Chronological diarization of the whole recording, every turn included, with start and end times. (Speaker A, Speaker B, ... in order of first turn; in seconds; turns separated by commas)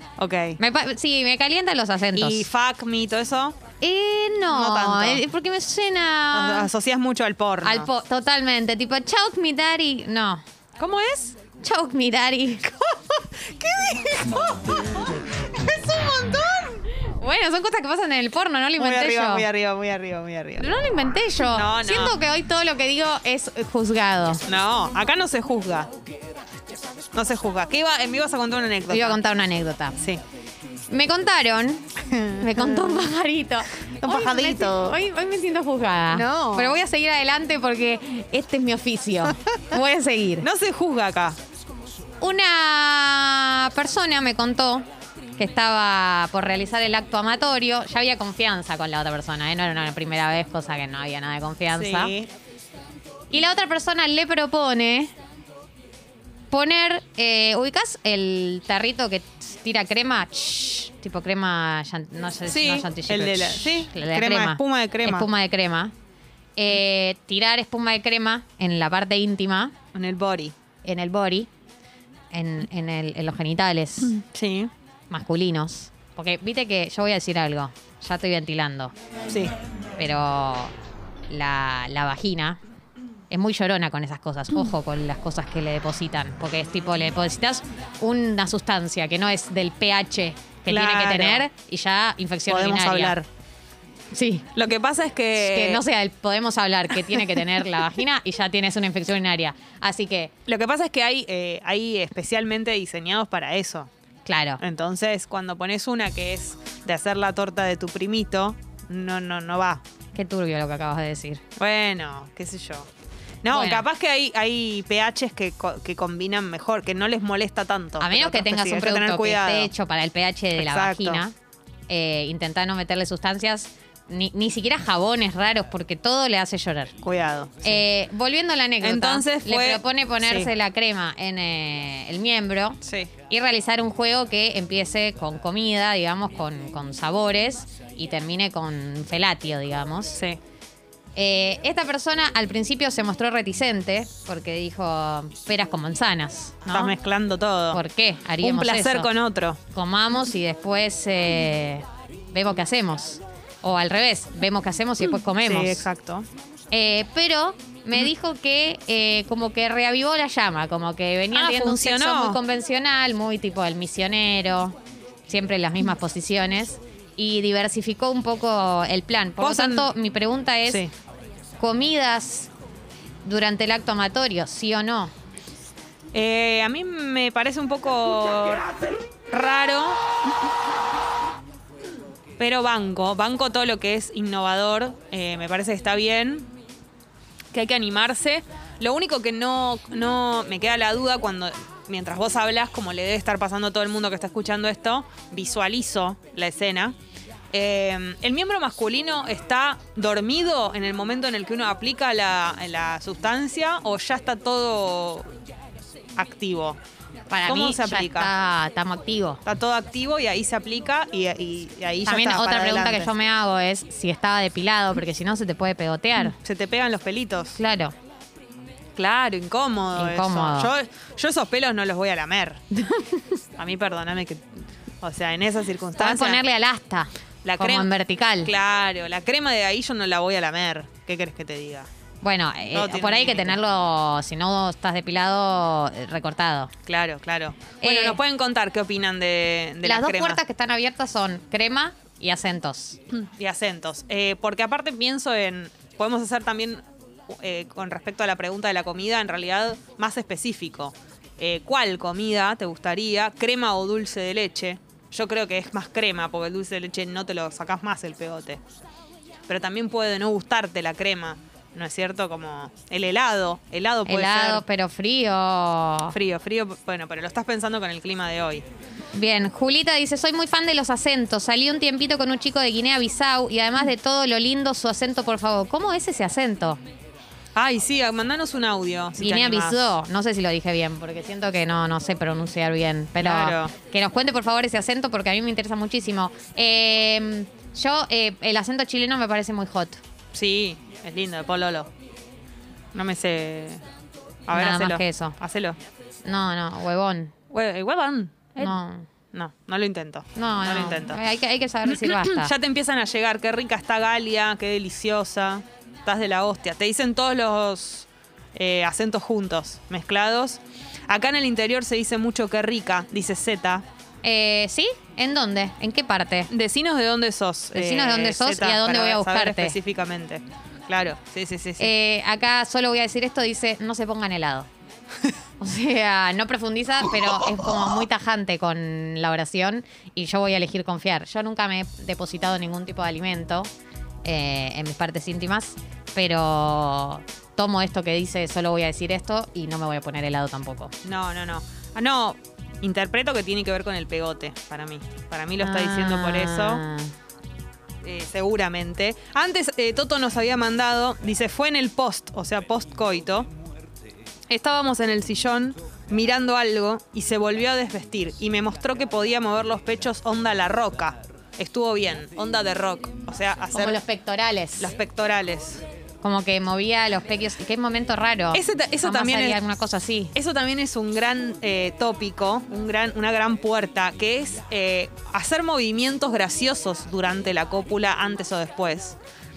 Speaker A: 0.2-0.6, Speaker B: 0.6-2.5, Speaker A: 2.1-3.6, Speaker B: 3.8-6.7, Speaker A: 4.5-5.2, Speaker A: 6.3-7.9, Speaker B: 7.6-10.4, Speaker A: 10.8-11.4, Speaker B: 11.6-12.7, Speaker A: 12.8-16.8, Speaker B: 17.0-19.5, Speaker A: 18.8-20.7, Speaker B: 20.6-24.4, Speaker A: 21.5-22.1, Speaker A: 24.5-25.9, Speaker A: 27.1-29.2, Speaker B: 28.9-30.0, Speaker B: 30.9-40.5, Speaker A: 32.1-33.0, Speaker A: 34.0-34.9, Speaker A: 36.1-36.8, Speaker A: 40.4-41.4, Speaker B: 42.2-44.9, Speaker B: 45.4-52.1, Speaker A: 51.8-52.3, Speaker B: 53.3-55.1, Speaker B: 56.5-65.9, Speaker A: 62.5-65.3, Speaker B: 66.6-69.8, Speaker A: 69.9-70.5, Speaker B: 70.8-71.5, Speaker B: 72.3-74.2, Speaker A: 74.2-74.7, Speaker B: 75.1-78.9, Speaker B: 80.0-80.7, Speaker B: 81.3-82.6, Speaker B: 83.3-93.2, Speaker A: 90.7-91.4, Speaker A: 92.5-93.3, Speaker B: 94.1-94.5, Speaker A: 94.5-95.8, Speaker B: 95.3-100.3, Speaker A: 100.5-103.9, Speaker B: 104.2-104.6, Speaker A: 104.6-109.8, Speaker B: 110.2-111.4, Speaker A: 111.6-112.9, Speaker A: 113.4-119.7, Speaker B: 113.5-113.8, Speaker B: 118.0-121.3, Speaker A: 120.6-121.2, Speaker B: 121.9-126.9, Speaker A: 127.0-127.8, Speaker B: 127.6-140.2, Speaker A: 128.8-130.5, Speaker A: 132.8-133.1, Speaker B: 141.2-146.9, Speaker A: 146.7-147.8, Speaker B: 147.7-149.1, Speaker A: 148.4-149.6, Speaker B: 149.7-155.8, Speaker A: 155.4-156.3, Speaker B: 156.7-164.8, Speaker A: 161.3-162.4, Speaker B: 165.3-170.8, Speaker A: 169.4-169.9, Speaker B: 171.6-172.5, Speaker B: 173.2-175.1, Speaker A: 176.1-178.7, Speaker A: 179.3-180.0, Speaker A: 182.4-186.5, Speaker A: 187.5-197.0, Speaker A: 197.5-205.3, Speaker A: 206.2-206.8, Speaker B: 207.3-209.4, Speaker A: 207.5-208.3, Speaker A: 209.4-213.1, Speaker B: 212.1-216.3, Speaker A: 216.2-217.6, Speaker B: 217.6-217.9, Speaker A: 219.0-222.6, Speaker B: 220.0-220.7, Speaker B: 222.7-223.3, Speaker A: 223.6-226.4, Speaker B: 226.0-228.5, Speaker A: 227.4-227.9, Speaker A: 228.4-231.9, Speaker B: 232.2-236.7, Speaker A: 232.7-233.6, Speaker A: 236.9-240.4, Speaker B: 237.8-238.2, Speaker B: 239.8-243.0, Speaker A: 243.1-258.6, Speaker A: 259.5-264.6, Speaker B: 264.1-266.1, Speaker A: 266.1-268.6, Speaker B: 269.1-276.8, Speaker A: 277.6-279.8, Speaker B: 279.2-290.0, Speaker A: 283.2-283.7, Speaker A: 290.3-291.9, Speaker A: 292.9-293.8, Speaker A: 294.5-295.8, Speaker B: 294.5-295.4, Speaker B: 296.2-297.3, Speaker A: 297.5-298.8, Speaker B: 298.6-299.1, Speaker A: 299.3-301.2, Speaker B: 300.4-302.5, Speaker A: 301.9-313.8, Speaker B: 314.2-316.5, Speaker A: 316.5-321.9, Speaker B: 317.7-319.8, Speaker B: 321.8-324.7, Speaker B: 325.6-333.7, Speaker B: 334.2-340.9, Speaker A: 341.0-346.8, Speaker B: 345.6-347.1, Speaker A: 348.0-353.5, Speaker A: 354.5-364.0, Speaker B: 363.7-364.9, Speaker A: 364.8-365.8, Speaker B: 366.2-370.3, Speaker A: 368.5-369.6, Speaker A: 370.4-379.1